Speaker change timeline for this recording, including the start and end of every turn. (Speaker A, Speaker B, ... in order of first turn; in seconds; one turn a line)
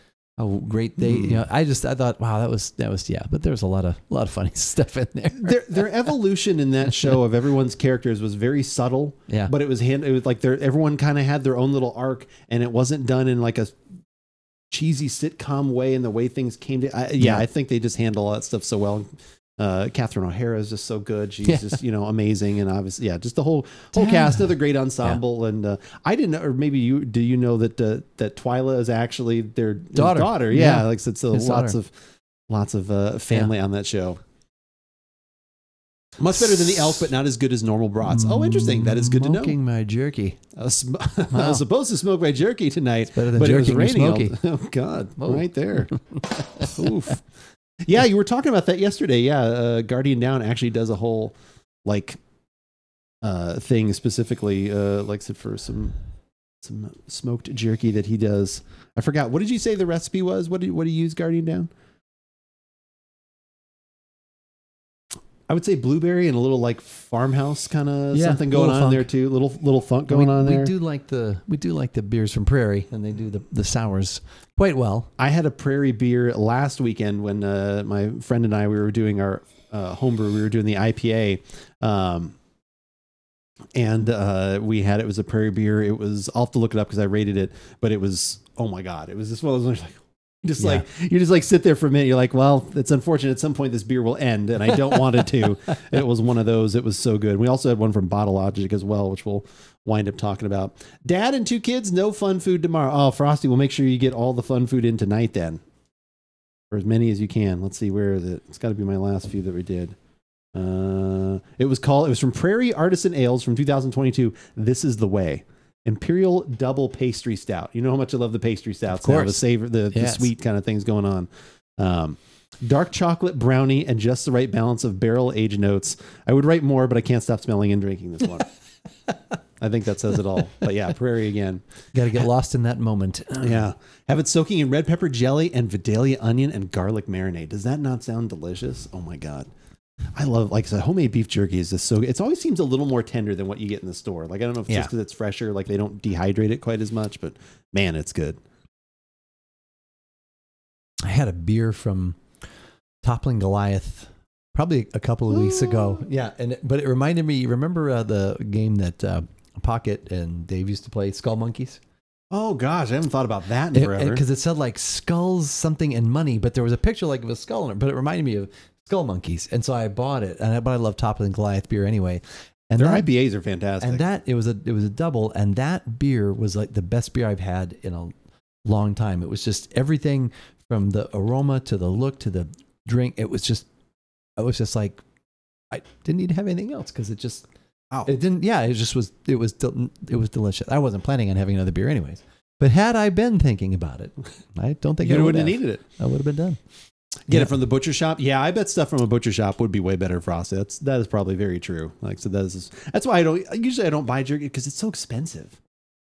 Speaker A: 0.4-5.9
Speaker B: 1.0-1.4
Speaker B: 5.4-13.8
Speaker B: 14.7-31.9
Speaker A: 17.2-17.4
Speaker A: 21.5-21.8
Speaker A: 23.9-24.5
Speaker A: 29.9-31.8
Speaker B: 32.5-34.2
Speaker B: 36.2-39.5
Speaker A: 38.0-40.4
Speaker B: 40.5-47.3
Speaker A: 41.3-41.6
Speaker A: 43.1-44.4
Speaker A: 45.2-46.7
Speaker B: 47.8-52.2
Speaker B: 53.2-56.0
Speaker B: 56.6-61.7
Speaker B: 65.5-70.7
Speaker A: 68.1-69.1
Speaker A: 70.1-75.1
Speaker B: 75.2-82.3
Speaker B: 83.8-105.6
Speaker A: 90.6-90.8
Speaker B: 106.7-110.0
Speaker B: 110.5-128.5
Speaker A: 118.9-120.3
Speaker B: 129.6-132.3
Speaker A: 131.9-133.6
Speaker B: 133.4-139.5
Speaker B: 140.2-148.4
Speaker A: 151.0-152.3
Speaker A: 153.0-161.8
Speaker B: 155.3-156.1
Speaker B: 162.3-164.2
Speaker A: 163.7-173.1
Speaker B: 172.8-174.1
Speaker A: 173.8-178.1
Speaker A: 178.7-183.7
Speaker A: 184.4-185.0
Speaker A: 185.7-187.5
Speaker A: 188.1-196.6
Speaker B: 195.0-195.8
Speaker B: 197.3-205.6